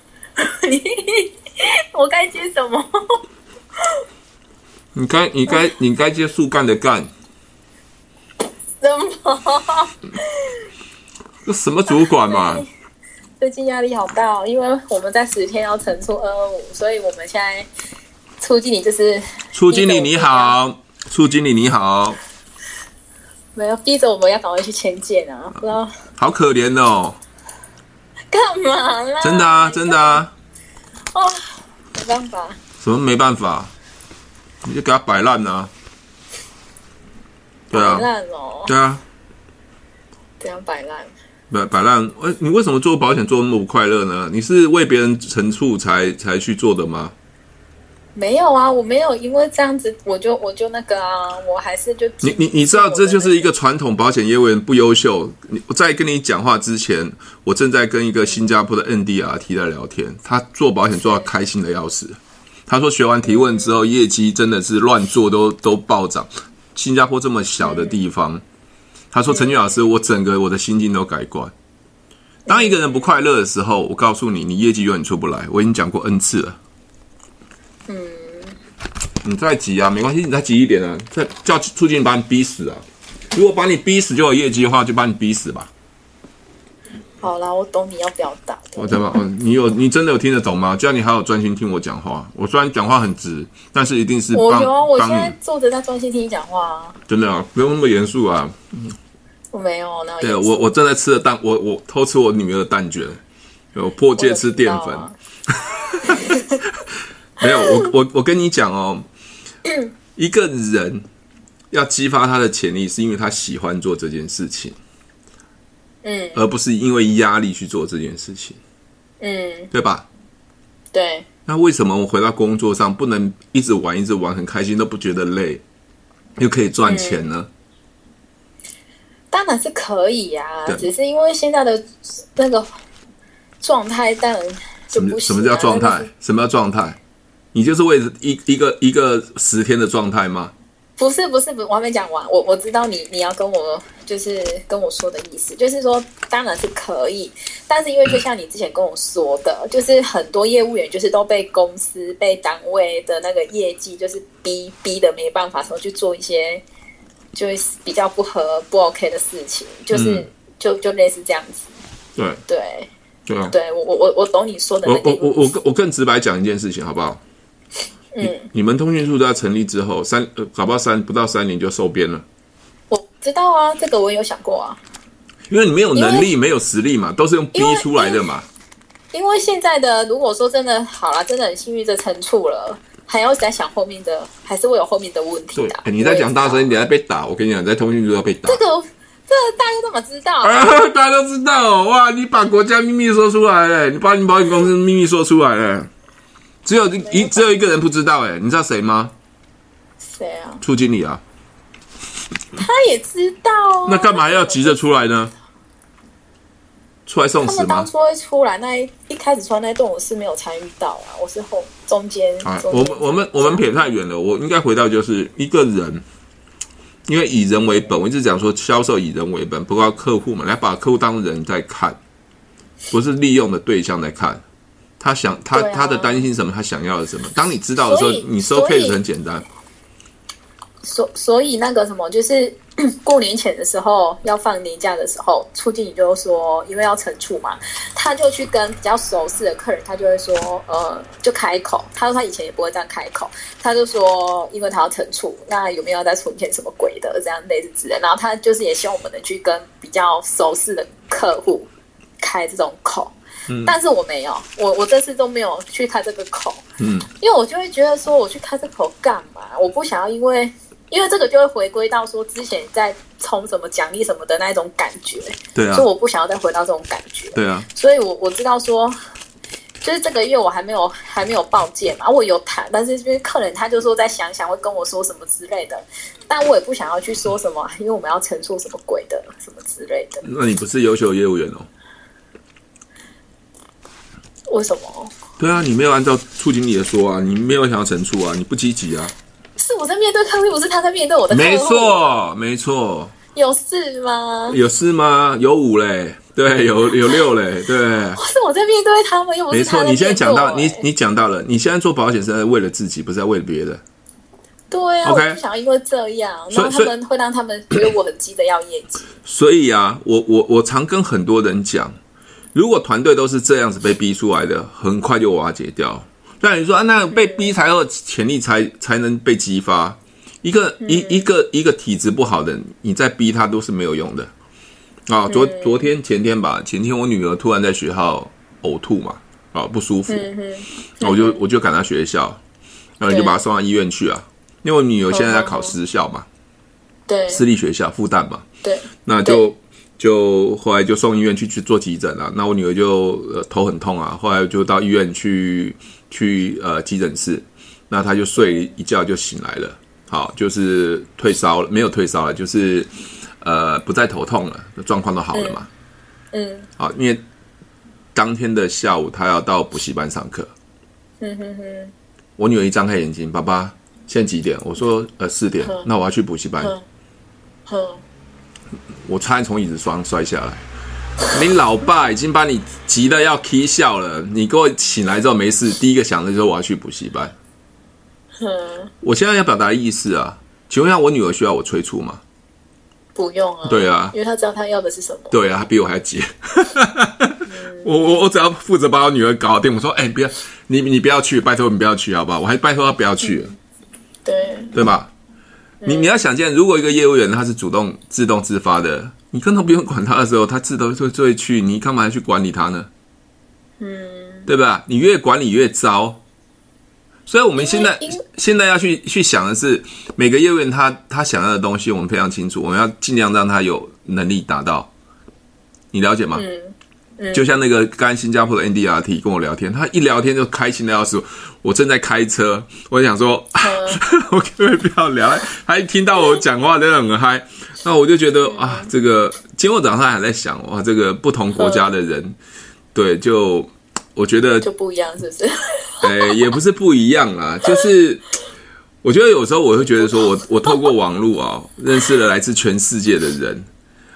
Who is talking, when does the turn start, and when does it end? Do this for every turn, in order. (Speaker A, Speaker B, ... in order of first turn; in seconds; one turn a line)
Speaker A: 0.4-3.2
Speaker A: 3.8-4.0
Speaker B: 5.0-7.1
Speaker A: 8.8-10.7
Speaker B: 11.4-12.6
Speaker A: 11.9-12.7
Speaker A: 13.4-17.7
Speaker A: 18.4-20.6
Speaker B: 19.5-22.2
Speaker A: 23.5-25.9
Speaker B: 26.2-27.2
Speaker A: 28.3-30.2
Speaker B: 29.2-30.3
Speaker A: 31.1-32.6
Speaker B: 32.8-33.7
Speaker B: 34.6-35.7
Speaker B: 37.7-38.1
Speaker A: 37.7-38.7
Speaker B: 38.7-39.0
Speaker A: 40.4-41.1
Speaker B: 41.5-47.1
Speaker A: 48.1-53.5
Speaker B: 52.2-68.4
Speaker A: 63.2-63.8
Speaker A: 67.6-68.0
Speaker B: 69.1-71.5
Speaker A: 69.3-69.7
Speaker A: 72.5-73.0
Speaker B: 72.5-76.6
Speaker A: 77.9-78.6
Speaker B: 79.2-85.7
Speaker A: 87.2-89.0
Speaker B: 88.8-95.3
Speaker A: 94.3-97.0
Speaker B: 97.1-98.9
Speaker A: 99.5-100.7
Speaker B: 100.2-103.2
Speaker B: 103.7-106.8
Speaker A: 104.2-105.1
Speaker A: 106.0-106.6
Speaker B: 107.4-109.0
Speaker A: 107.4-107.7
Speaker A: 109.7-109.9
Speaker B: 110.2-111.0
Speaker B: 111.7-114.8
Speaker A: 116.0-116.4
Speaker B: 116.3-118.6
Speaker A: 119.2-119.7
Speaker B: 119.7-120.1
Speaker A: 120.9-121.3
Speaker B: 121.5-125.6
Speaker B: 126.4-127.5
Speaker A: 126.8-127.2
Speaker A: 129.3-132.7
Speaker A: 133.6-136.1
Speaker B: 134.9-137.0
Speaker B: 137.5-140.5
Speaker A: 141.0-156.6
Speaker A: 157.3-161.7
Speaker B: 159.9-160.2
Speaker B: 162.2-162.4
Speaker A: 162.5-162.9
Speaker B: 163.3-163.5
Speaker A: 163.5-165.4
Speaker B: 164.8-167.2
Speaker A: 168.1-168.5
Speaker B: 168.2-172.2
Speaker A: 172.9-174.8
Speaker B: 175.5-178.4
Speaker A: 175.9-176.3
Speaker A: 177.5-178.2
Speaker A: 179.1-186.7
Speaker B: 185.5-188.6
Speaker A: 188.4-190.7
Speaker B: 190.4-195.9
Speaker B: 196.6-199.1
Speaker A: 197.0-197.7
Speaker A: 200.0-200.6
Speaker B: 200.6-201.2
Speaker A: 202.5-204.8
Speaker B: 203.8-205.3
Speaker B: 207.1-207.9
Speaker A: 207.4-213.7
Speaker B: 212.4-216.0
Speaker B: 217.1-222.0
Speaker B: 222.9-224.4
Speaker B: 225.0-229.4
Speaker A: 225.5-226.3
Speaker A: 227.8-229.0
Speaker A: 230.8-251.7
Speaker A: 252.2-253.1
Speaker B: 253.5-253.7
Speaker A: 253.6-269.0
Speaker B: 256.8-257.1
Speaker B: 265.5-265.9
Speaker B: 267.3-267.7
Speaker A: 269.8-280.2
Speaker B: 280.2-281.7
Speaker A: 284.5-285.1
Speaker B: 285.4-289.1
Speaker A: 289.6-292.0
Speaker B: 291.3-293.1
Speaker A: 293.3-294.6
Speaker B: 294.5-298.2
Speaker A: 297.0-297.3
Speaker A: 298.1-300.8
Speaker B: 299.5-303.8
Speaker A: 304.7-309.0
Speaker B: 305.0-305.4
Speaker B: 306.5-306.9
Speaker B: 309.2-311.9
Speaker B: 312.5-324.3
Speaker A: 317.1-317.5
Speaker A: 320.8-321.2
Speaker B: 325.1-330.3
Speaker A: 325.3-325.8
Speaker A: 330.1-331.4
Speaker B: 331.0-332.4
Speaker B: 333.0-336.2
Speaker A: 333.1-333.4
Speaker A: 335.1-335.8
Speaker A: 337.1-337.4
Speaker B: 337.3-338.4
Speaker A: 338.6-339.4
Speaker B: 339.0-355.7
Speaker A: 355.3-355.6
Speaker A: 356.3-356.7
Speaker B: 356.8-357.2
Speaker B: 358.1-360.5
Speaker A: 361.2-361.9
Speaker B: 362.4-366.7
Speaker A: 367.7-368.0
Speaker B: 369.0-370.6
Speaker B: 371.2-377.3
Speaker A: 378.4-378.9
Speaker B: 379.0-382.2
Speaker A: 383.1-385.3
Speaker B: 383.6-384.1
Speaker B: 385.3-393.5
Speaker A: 387.4-387.9
Speaker A: 393.2-393.5
Speaker A: 394.2-394.7
Speaker B: 394.7-395.1
Speaker A: 395.8-396.1
Speaker B: 395.8-402.9
Speaker A: 403.8-404.5
Speaker B: 404.5-406.2
Speaker B: 407.3-414.9
Speaker A: 407.6-408.2
Speaker B: 415.9-416.4
Speaker A: 416.3-417.4
Speaker B: 417.3-432.4
Speaker A: 423.6-424.0
Speaker A: 428.4-428.9
Speaker A: 431.6-431.9
Speaker B: 432.9-434.7
Speaker A: 434.6-436.3
Speaker B: 436.0-438.3
Speaker B: 439.0-443.7